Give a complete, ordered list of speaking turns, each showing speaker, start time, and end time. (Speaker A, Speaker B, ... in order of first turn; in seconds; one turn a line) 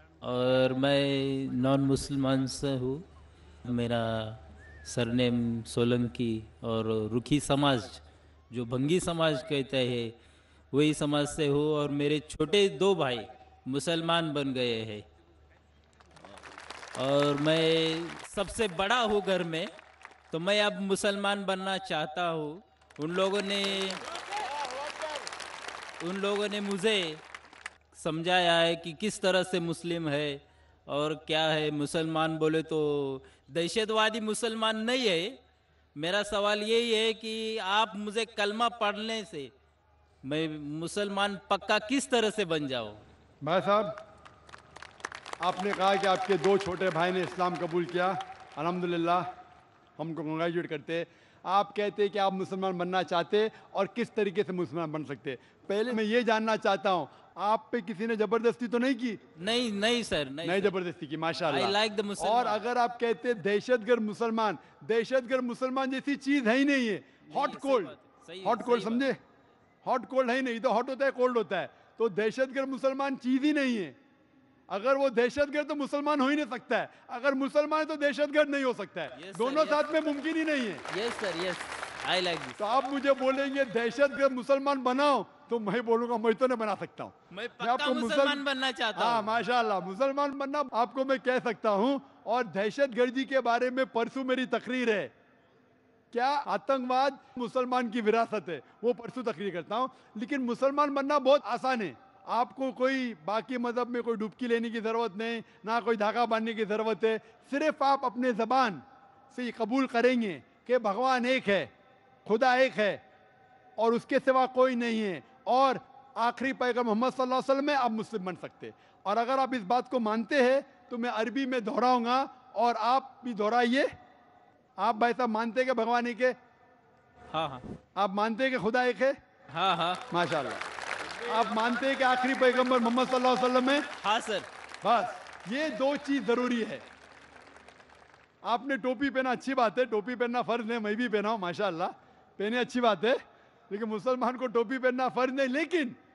Speaker A: 0.2-3.0
Speaker A: 3.6-10.1
Speaker A: 10.7-15.1
Speaker A: 16.9-19.7
Speaker A: 20.3-24.0
Speaker A: 26.0-27.2
Speaker A: 27.9-35.4
Speaker A: 36.0-39.5
Speaker A: 40.2-43.0
Speaker B: 43.4-43.9
Speaker B: 45.4-49.3
Speaker B: 50.0-59.2
Speaker A: 59.4-60.7
Speaker B: 60.4-69.2
Speaker A: 61.5-62.6
Speaker A: 67.3-69.1
Speaker B: 69.8-73.9
Speaker B: 74.7-80.8
Speaker A: 79.1-79.8
Speaker A: 80.9-82.6
Speaker B: 82.6-88.4
Speaker A: 87.3-89.3
Speaker B: 89.0-95.1
Speaker B: 96.1-111.7
Speaker B: 112.2-113.0
Speaker B: 113.8-123.9
Speaker B: 124.8-126.3
Speaker A: 127.3-127.6
Speaker B: 128.0-129.2
Speaker A: 129.5-130.0
Speaker B: 130.1-130.6
Speaker B: 131.2-133.9
Speaker A: 134.0-134.5
Speaker B: 134.8-136.8
Speaker B: 138.4-143.2
Speaker B: 143.7-145.9